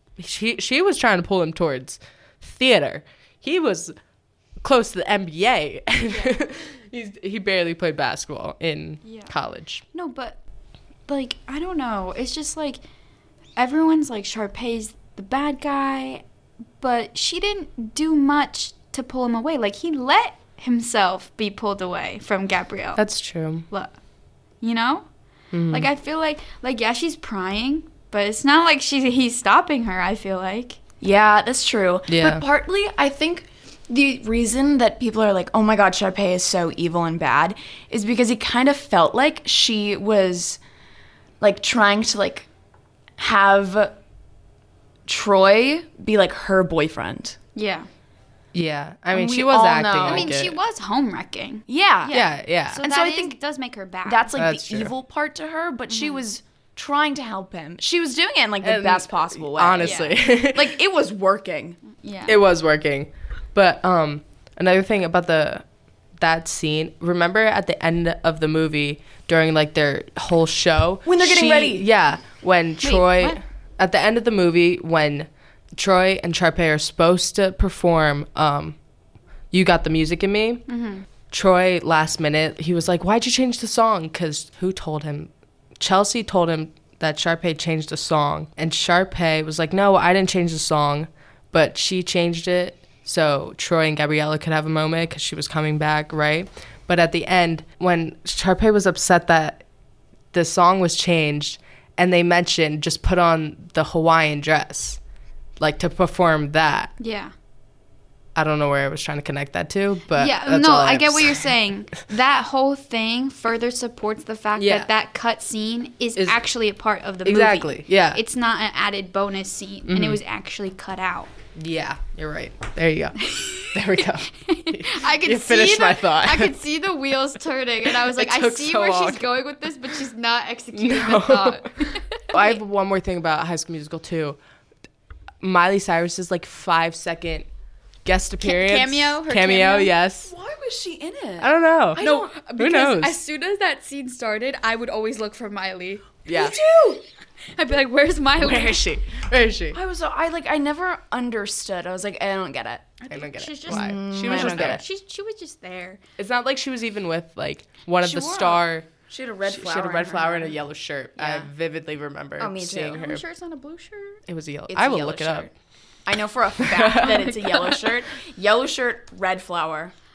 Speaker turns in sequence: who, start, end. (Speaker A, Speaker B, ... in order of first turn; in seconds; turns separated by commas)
Speaker A: 0.2-3.9, Speaker A: 4.6-9.8, Speaker B: 6.1-6.4, Speaker B: 9.0-9.3, Speaker B: 9.9-10.4, Speaker B: 11.1-12.8, Speaker B: 13.6-16.2, Speaker B: 16.8-23.0, Speaker A: 23.0-23.7, Speaker B: 23.7-24.0, Speaker B: 24.6-25.1, Speaker A: 25.5-25.9, Speaker B: 25.7-30.8, Speaker C: 31.0-40.6, Speaker A: 32.1-32.4, Speaker C: 41.4-42.5, Speaker C: 43.2-44.0, Speaker C: 45.1-47.4, Speaker B: 47.5-47.9, Speaker A: 48.5-50.6, Speaker C: 49.1-50.3, Speaker B: 50.0-54.3, Speaker C: 51.7-52.2, Speaker A: 52.1-52.8, Speaker C: 52.8-53.4, Speaker C: 54.0-61.8, Speaker A: 54.4-54.9, Speaker B: 55.9-56.2, Speaker A: 58.6-60.8, Speaker B: 59.8-60.2, Speaker B: 61.9-62.4, Speaker A: 62.3-65.7, Speaker A: 66.2-78.8, Speaker C: 71.0-71.8, Speaker B: 72.8-73.4, Speaker A: 79.5-80.7, Speaker B: 80.7-81.0, Speaker A: 81.3-99.7, Speaker A: 100.3-105.0, Speaker A: 105.6-106.9, Speaker B: 107.0-107.3, Speaker A: 108.3-111.5, Speaker B: 110.2-121.3, Speaker A: 114.6-114.9, Speaker A: 117.2-118.2, Speaker A: 119.9-120.2, Speaker A: 121.5-126.5, Speaker B: 123.3-132.6, Speaker A: 127.8-129.4, Speaker A: 130.7-134.4, Speaker A: 135.4-137.5, Speaker A: 138.0-140.3, Speaker B: 138.4-139.9, Speaker C: 140.2-142.3, Speaker A: 141.4-143.2, Speaker B: 142.0-146.2, Speaker A: 146.3-146.6, Speaker C: 146.3-147.0, Speaker B: 147.6-148.8, Speaker A: 148.4-149.8, Speaker C: 149.7-153.0, Speaker B: 153.0-156.0, Speaker A: 153.1-154.8, Speaker C: 153.7-154.8, Speaker A: 156.2-158.9, Speaker B: 158.0-158.6, Speaker C: 159.1-160.6, Speaker A: 159.5-163.2, Speaker C: 161.2-161.5, Speaker C: 162.4-163.1, Speaker B: 162.9-164.2, Speaker A: 164.3-165.5, Speaker C: 164.7-165.5, Speaker C: 166.1-169.9, Speaker A: 166.6-167.2, Speaker B: 167.0-167.8